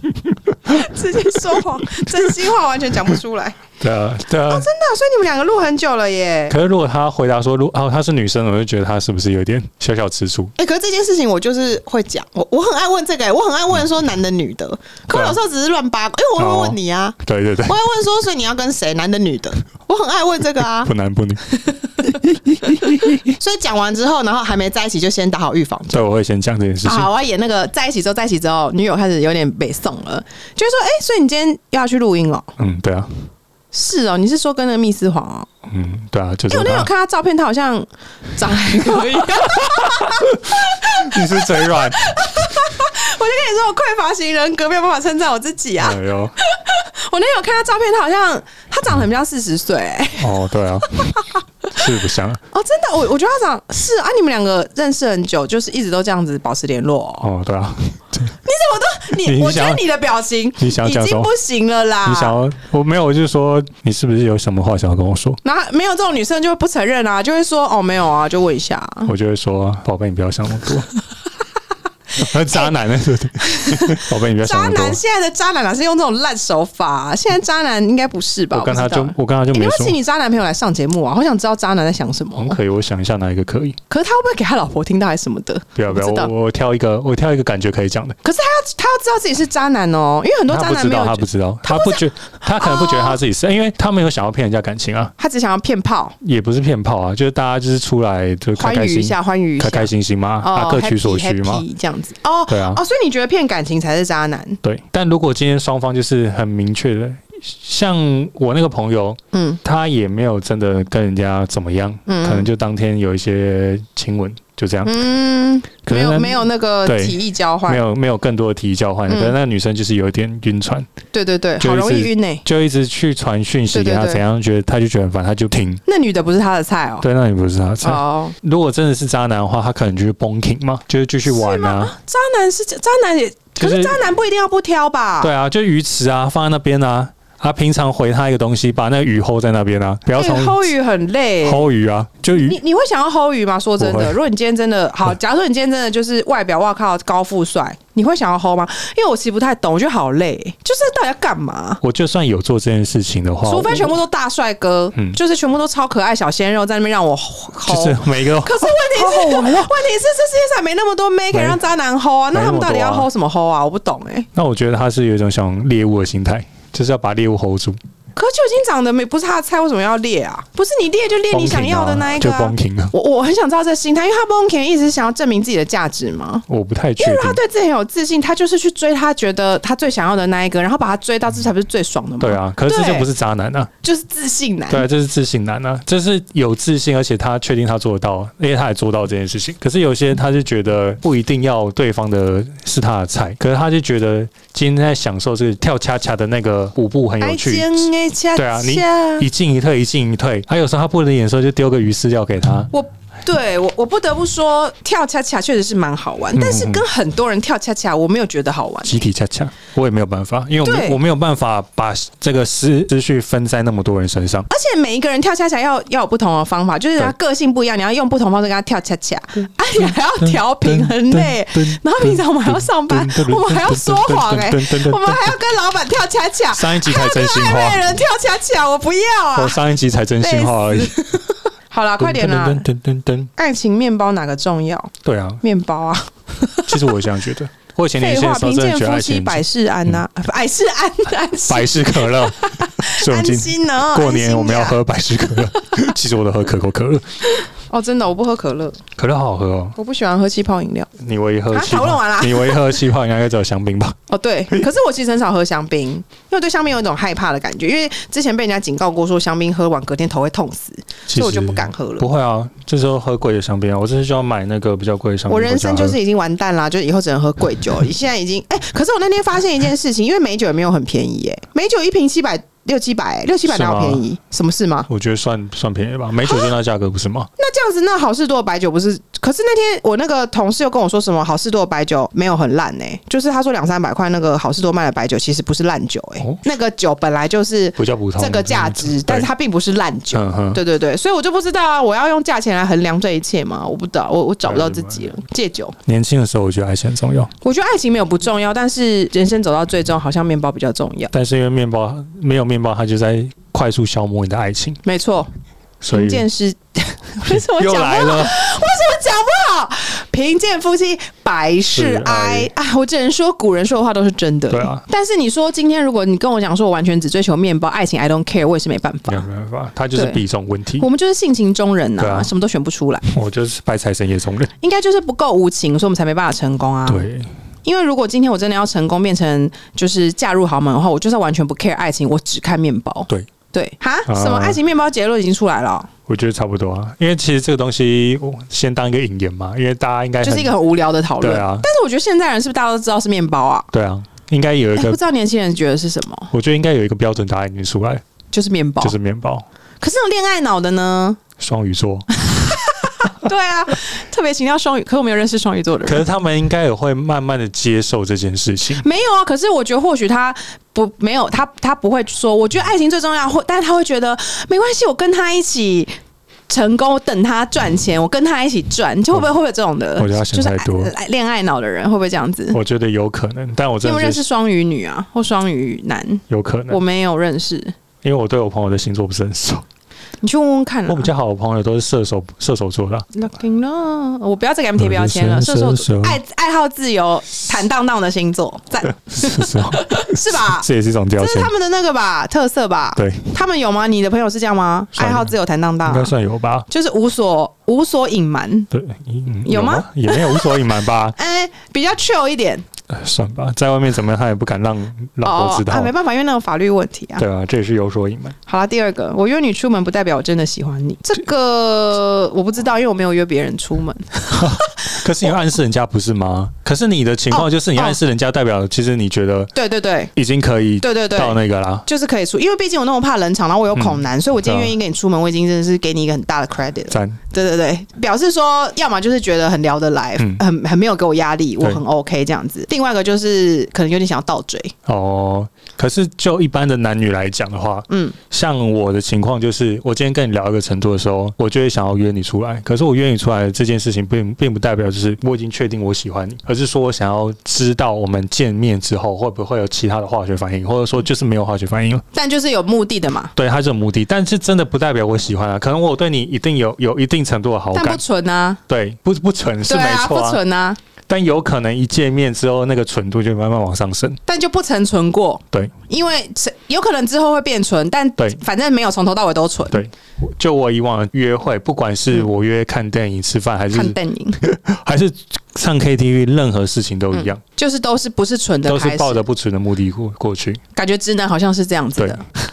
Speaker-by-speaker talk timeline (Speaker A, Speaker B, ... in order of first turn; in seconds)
Speaker A: 0.6-3.6, 4.5-6.5, 10.6-20.9, 22.6-26.0, 26.8-32.5, 33.7-35.5, 36.5-51.8, 52.5-57.3, 58.4-62.4, 65.4-69.1, 73.4-82.6, 83.9-86.3, 88.2-93.2, 95.2-96.2, 98.6-104.6, 109.3-109.6, 112.1-112.5, 114.8-117.8, 119.1-119.3, 121.1-122.4, 123.7-124.2, 125.8-127.0, 127.8-128.3, 131.3-135.3, 140.1-141.7, 142.3-151.8, 153.4-164.3, 168.2-176.4, 177.0-183.1, 183.8-184.8, 197.2-199.3, 202.7-209.0, 210.6-211.0, 214.5-229.6, 230.2-232.7, 233.4-237.0, 238.0-245.8, 247.3-248.8, 249.8-250.9, 251.5-252.8, 254.1-262.1, 265.3-274.9, 276.2-276.5, 277.4-295.8, 297.4-301.1, 304.8-305.3, 305.9-319.2, 319.9-320.2, 320.8-323.1, 324.6-327.1, 327.6-335.9, 340.2-343.7, 344.8-346.3, 348.3-348.9, 349.8-351.2, 352.2-356.1, 358.8-365.9, 366.5-372.6, 373.8-377.7, 380.2-381.1, 383.1-396.1, 396.7-398.7, 399.4-402.6, 405.2-407.2, 408.5-415.0, 417.3-418.0, 419.5-420.1, 420.8-434.7, 437.9-438.2, 452.1-453.3, 457.7-458.6, 459.6-460.8, 464.2-469.8, 473.7-474.4, 477.1-479.2, 480.7-482.4
Speaker B: 1.4-2.3, 3.8-4.7, 6.5-10.5, 15.1-15.4, 16.4-17.8, 20.8-23.3, 25.9-27.1, 32.6-33.1, 35.7-36.9, 38.9-42.6, 45.8-46.3, 50.2-51.1, 51.7-52.4, 57.2-58.4, 59.1-59.9, 60.6-61.3, 62.0-65.4, 69.0-70.9, 72.2-75.0, 78.5-80.0, 82.3-83.8, 85.8-88.2, 90.5-95.1, 96.2-101.6, 102.5-102.8, 104.6-115.0, 115.8-120.9, 121.6-125.8, 127.0-131.9, 133.6-134.1, 135.2-140.7, 141.4-142.6, 143.8-144.2, 151.8-153.9, 157.6-159.8, 161.3-161.6, 162.3-163.1, 164.3-167.8, 171.3-172.9, 176.5-177.4, 182.2-183.7, 184.7-202.7, 206.3-206.8, 208.8-214.5, 219.8-225.4, 226.5-228.0, 229.3-231.1, 232.0-233.3, 235.0-235.4, 236.7-240.0, 241.5-247.0, 249.0-249.8, 251.0-254.0, 261.1-266.0, 273.4-274.0, 274.9-277.3, 287.8-289.3, 290.1-290.6, 294.4-295.0, 295.9-297.3, 301.1-304.8, 305.8-306.2, 307.2-308.4, 311.7-312.5, 314.5-314.8, 319.1-320.9, 322.0-322.3, 323.1-324.5, 326.9-327.3, 334.1-334.6, 336.1-340.5, 341.2-341.7, 343.7-345.0, 346.3-348.0, 348.8-349.4, 351.4-352.1, 355.8-358.8, 370.0-370.9, 372.5-374.2, 376.3-376.8, 378.0-379.6, 380.9-383.1, 384.8-386.2, 389.1-391.5, 392.9-393.3, 394.9-395.3, 395.9-396.6, 398.7-401.1, 402.9-405.9, 407.2-408.4, 414.3-419.5, 420.1-421.8, 423.7-424.7, 426.9-427.2, 434.9-452.0, 453.4-458.0, 458.7-460.4, 461.1-464.2, 469.7-477.4, 478.6-480.6